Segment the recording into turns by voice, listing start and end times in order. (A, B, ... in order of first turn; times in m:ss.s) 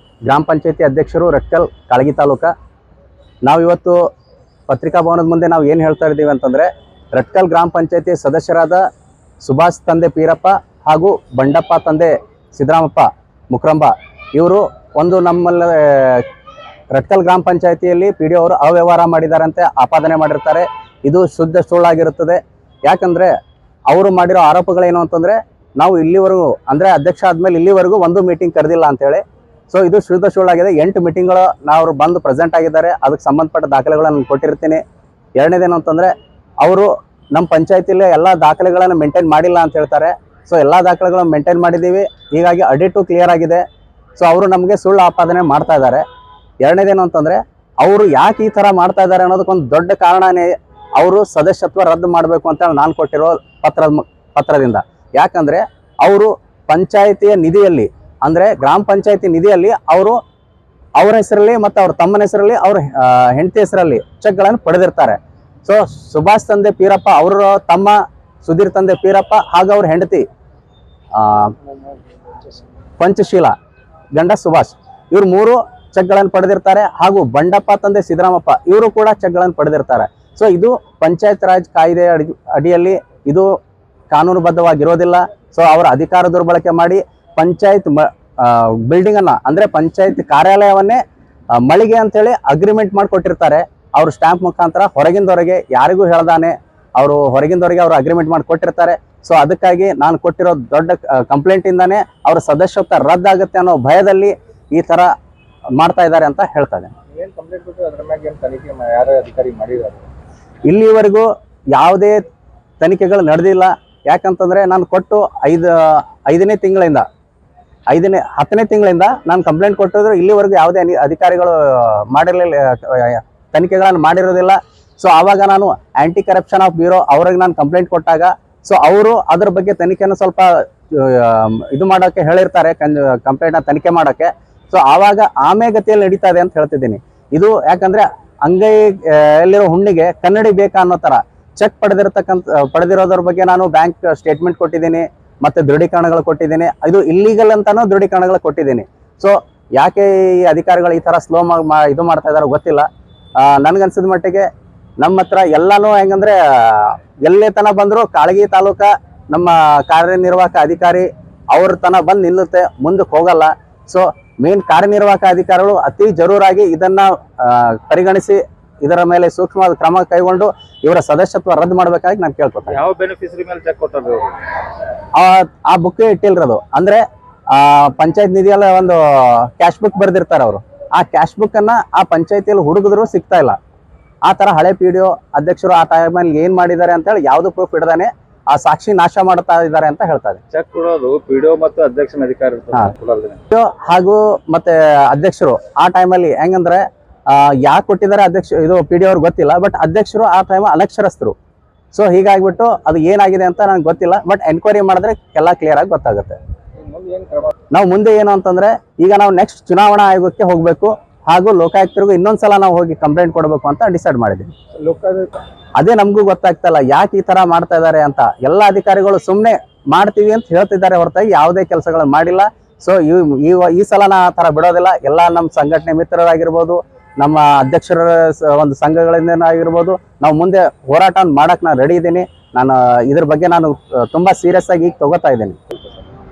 0:00.3-0:02.5 A
0:03.5-0:04.0 A
0:04.7-0:08.8 A
0:09.4-0:16.2 A
0:17.0-0:23.3 A
0:23.9-0:34.8 A
0:35.4-0:43.6 A
0:44.2-0:46.0 A
0:46.6-1:00.2 A
1:01.0-1:10.2 A
1:11.2-1:11.5 A
1:13.0-1:13.5 A
1:14.2-1:23.5 A
1:24.1-1:31.0 A
1:31.6-1:45.1 A
1:45.8-1:46.9 A
1:47.1-1:50.0 B
1:50.7-1:52.2 A
1:52.8-1:57.0 A
1:57.9-2:32.9 A
2:33.4-2:34.5 A
2:35.0-2:52.8 A
2:52.7-2:54.4 B
2:55.2-3:03.6 A
3:04.3-3:10.4 A
3:10.5-3:13.4 B
3:13.5-3:21.4 A
3:21.9-3:26.4 A
3:26.8-3:27.5 B
3:27.7-3:34.5 A
3:34.8-3:35.3 B
3:35.8-3:55.6 A